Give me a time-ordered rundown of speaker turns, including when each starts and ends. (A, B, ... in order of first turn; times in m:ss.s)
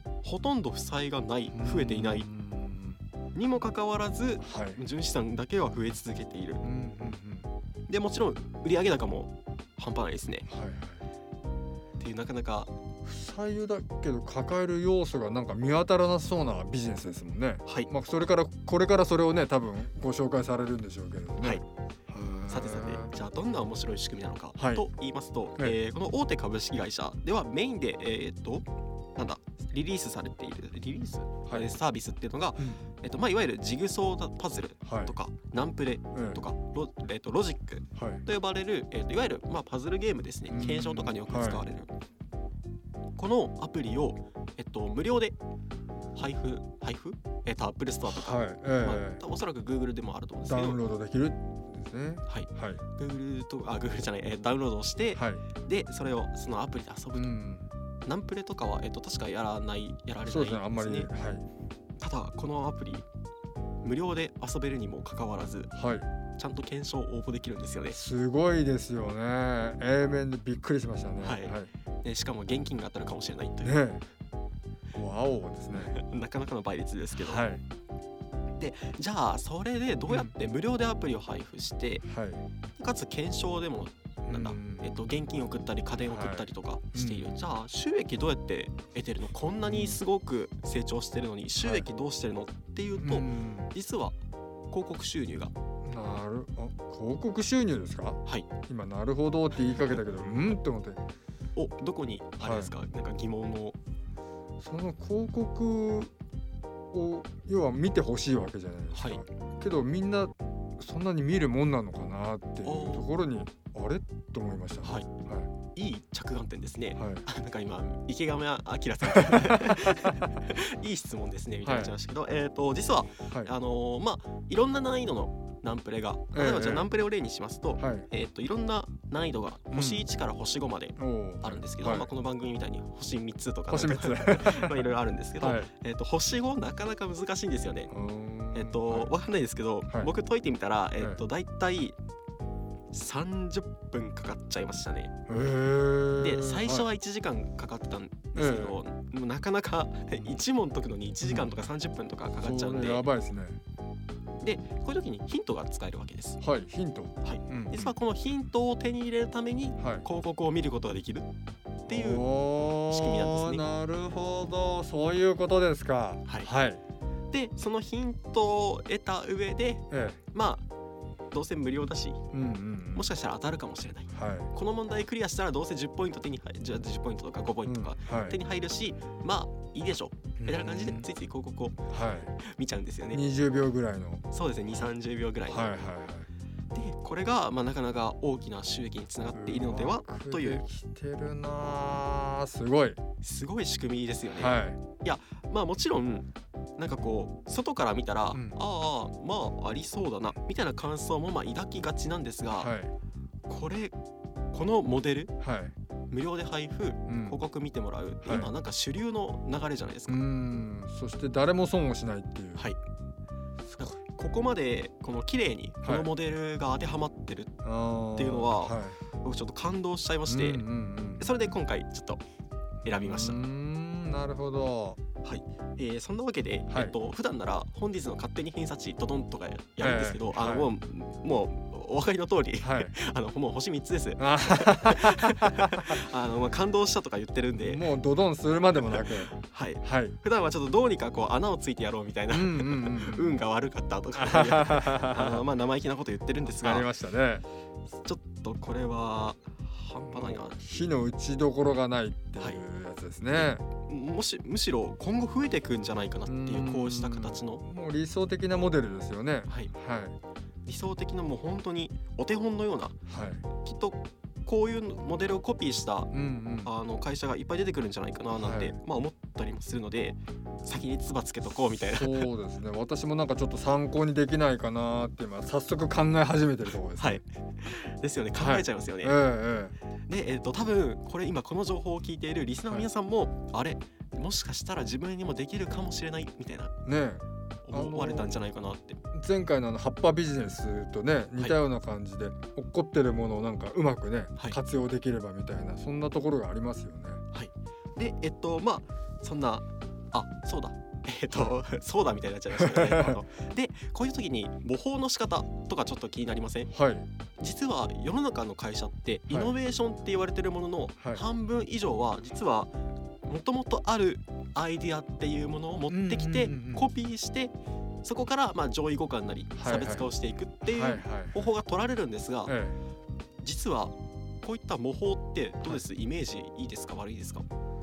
0:00.2-0:02.3 A
0:01.5-0:03.0 B
0:03.4-0:06.6 A
0:04.4-0:04.8 B
0:06.6-0:07.5 B
0:07.9-0:10.5 A
0:10.5-0:11.0 B
0:12.0-0:12.7 A
0:13.0-0:23.1 B
0:22.5-0:41.9 A
0:24.6-0:24.9 B
0:34.8-0:35.1 B
0:36.1-0:36.4 B
0:38.0-0:38.2 B
0:40.5-0:41.6 B
0:43.2-0:45.4 A
0:46.1-0:50.8 A
0:48.1-0:49.2 B
0:50.4-0:52.8 B
0:52.3-0:57.4 A
0:55.1-0:55.4 B
0:57.2-0:57.7 B
0:58.0-1:01.1 A
1:00.2-1:01.5 B
1:02.0-1:03.1 A
1:03.8-1:05.7 A
1:05.8-1:06.1 B
1:06.4-1:08.0 A
1:07.9-1:11.7 B
1:11.2-1:13.8 A
1:13.6-1:14.0 B
1:15.0-1:16.0 B
1:15.8-1:17.5 A
1:17.2-1:17.6 B
1:18.6-1:22.0 A
1:20.1-1:20.3 B
1:22.0-1:22.4 B
1:22.8-1:34.2 A
1:24.3-1:24.9 B
1:26.1-1:27.4 B
1:29.6-1:30.0 B
1:31.6-1:31.9 B
1:33.0-1:33.7 B
1:34.7-1:35.5 A
1:35.9-1:41.0 B
1:39.7-1:40.0 A
1:41.6-1:43.8 A
1:42.4-1:42.7 B
1:44.6-1:46.1 B
1:46.9-1:55.5 B
1:49.0-1:49.2 A
1:52.6-1:53.1 A
1:55.8-2:17.9 A
1:57.0-1:57.3 B
1:59.2-2:00.2 B
2:01.6-2:01.9 B
2:06.3-2:06.9 B
2:07.8-2:08.1 B
2:09.7-2:10.0 B
2:11.0-2:12.1 B
2:13.7-2:14.9 B
2:15.4-2:15.7 B
2:17.9-2:19.1 B
2:18.5-2:22.0 A
2:22.9-2:25.2 A
2:25.3-2:26.9 B
2:26.2-2:33.1 A
2:28.4-2:28.8 B
2:31.2-2:31.5 B
2:32.4-2:33.6 B
2:34.4-2:36.4 A
2:36.4-2:38.0 B
2:37.2-2:41.3 A
2:39.8-2:40.0 B
2:41.9-2:42.2 A
2:41.9-2:46.8 B
2:42.9-2:43.6 A
2:47.3-2:50.6 A
2:49.9-2:50.2 B
2:51.3-2:52.2 A
2:52.3-2:53.1 B
2:52.9-3:01.8 A
2:54.1-2:54.5 B
2:57.6-2:58.4 B
3:00.4-3:01.1 B
3:01.9-3:02.3 B
3:02.4-3:03.2 A
3:03.1-3:04.2 B
3:04.3-3:05.7 A
3:05.5-3:06.3 B
3:06.7-3:10.6 A
3:09.3-3:13.0 B
3:13.2-3:22.7 A
3:14.3-3:14.8 B
3:22.6-3:22.9 B
3:23.5-3:24.0 A
3:24.5-3:25.3 A
3:25.4-3:25.7 B
3:26.1-3:30.2 A
3:27.1-3:27.4 B
3:28.2-3:28.5 B
3:30.1-3:32.7 B
3:33.7-3:33.9 B
3:33.8-3:37.5 A
3:35.8-3:36.1 B
3:37.6-3:39.0 B
3:38.2-3:40.6 A
3:40.3-3:41.4 B
3:41.2-3:42.2 A
3:42.8-3:43.4 A
3:42.9-3:45.0 B
3:45.2-3:57.9 A
3:49.8-3:50.7 B
3:52.6-3:53.0 B
3:54.2-3:55.9 B
3:57.6-4:00.2 B
3:58.9-4:06.9 A
4:02.3-4:03.4 B
4:04.2-4:05.5 B
4:06.6-4:07.5 B
4:08.0-4:11.0 A
4:10.1-4:13.6 B
4:13.3-4:17.6 A
4:16.3-4:20.2 B
4:19.5-4:19.7 A
4:20.6-4:23.0 A
4:23.1-4:23.4 B
4:23.6-4:26.1 A
4:26.1-4:26.7 B
4:26.6-4:32.3 A
4:28.4-4:28.7 B
4:31.8-4:37.2 B
4:37.0-4:39.2 A
4:38.4-4:39.8 B
4:40.1-4:46.7 A
4:46.9-4:48.3 B
4:47.6-4:49.0 A
4:49.1-4:57.2 B
4:57.3-5:06.7 A
5:02.6-5:03.2 B
5:06.7-5:07.1 B
5:07.4-5:12.7 A
5:09.3-5:09.6 B
5:13.2-5:22.6 A
5:15.9-5:16.9 B
5:19.6-5:20.1 B
5:20.6-5:21.4 B
5:22.5-5:22.8 B
5:23.4-5:27.5 A